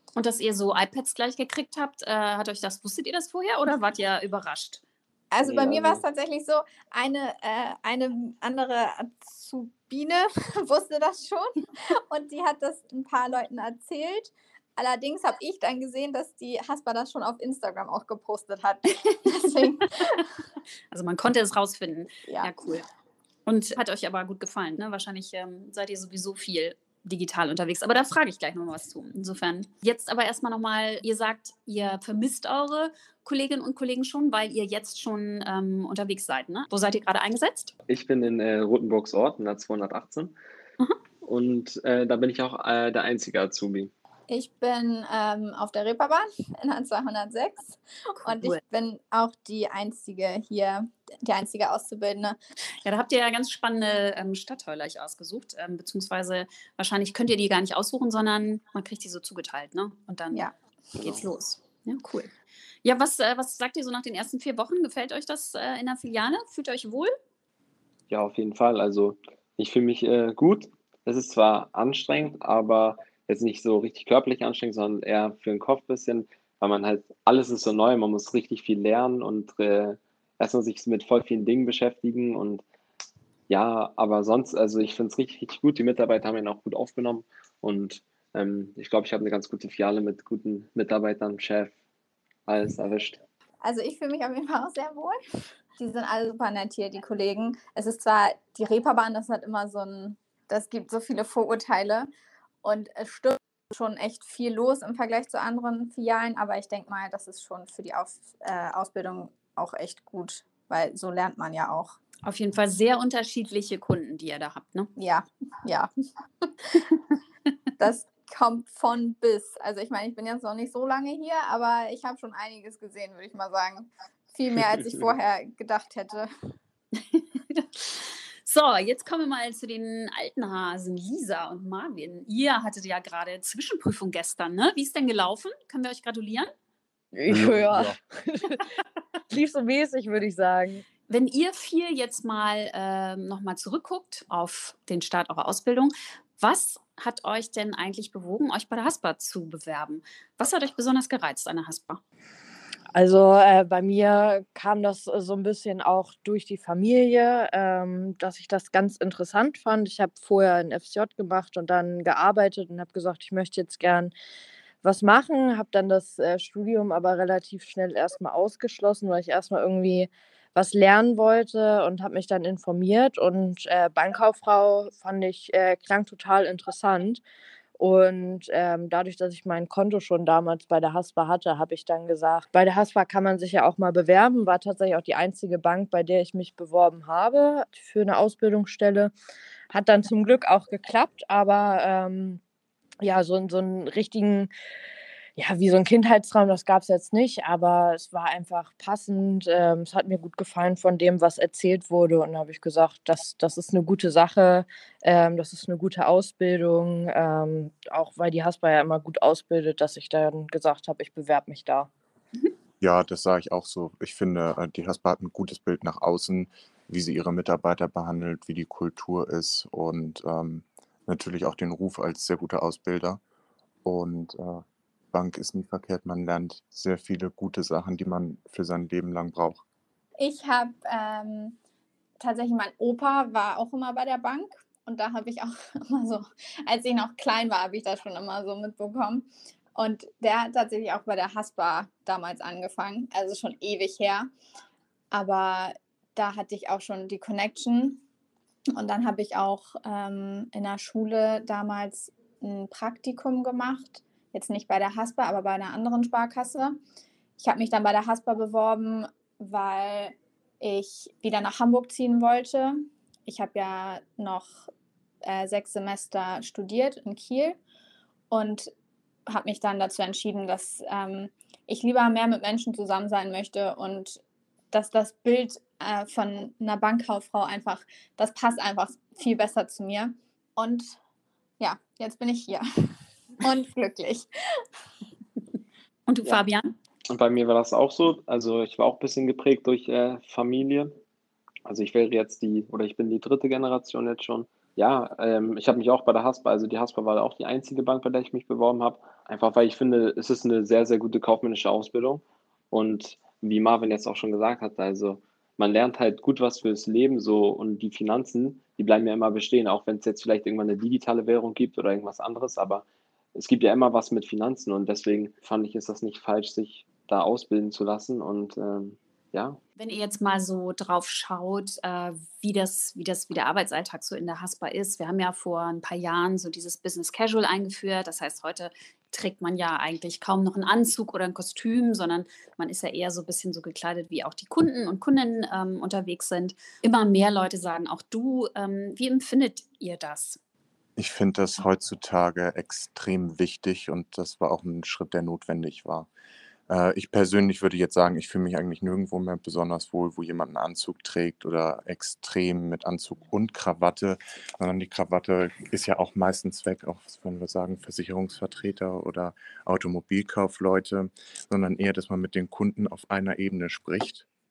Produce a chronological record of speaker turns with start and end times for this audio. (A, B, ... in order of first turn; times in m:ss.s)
0:00.2-0:04.8 A
0:05.3-0:20.3 B
0:05.4-0:06.0 C
0:20.9-0:22.9 A
0:23.5-0:37.7 A
0:37.9-0:40.3 C
0:41.2-0:43.9 C
0:44.3-0:52.4 B
0:48.2-0:48.6 A
0:52.8-1:00.4 A
1:01.0-1:01.2 C
1:01.0-1:02.3 A
1:02.8-1:07.1 A
1:08.1-1:22.6 C
1:23.5-1:31.7 C
1:32.5-1:33.2 C
1:33.6-1:35.2 B
1:35.8-1:42.1 B
1:42.6-1:52.0 B
1:52.2-1:54.9 A
1:55.0-1:55.9 B
1:56.4-1:56.9 B
1:57.8-2:06.3 B
2:07.1-2:16.5 A
2:17.1-2:18.6 D
2:17.3-2:18.0 E
2:19.3-2:20.8 D
2:21.1-2:32.0 A
2:32.9-2:44.1 D
2:44.8-2:57.2 D
2:57.8-3:09.1 D
3:09.7-3:12.4 D
3:13.0-3:14.5 D
3:15.4-3:31.9 D
3:32.8-3:43.2 E
3:43.8-3:49.6 E
3:50.2-3:51.6 B
3:52.2-4:04.3 B
4:05.1-4:08.0 B
4:08.7-4:16.8 B
4:17.4-4:24.7 B
4:25.2-4:27.6 B
4:28.3-4:28.7 B
4:29.3-4:34.2 B
4:34.7-4:41.0 B
4:41.6-4:42.6 B
4:43.4-4:44.6 B
4:46.1-4:46.7 A
4:47.1-4:51.0 C
4:51.7-5:19.6 C
5:19.8-5:40.4 A
5:41.0-5:46.1 E
5:46.7-6:04.3 E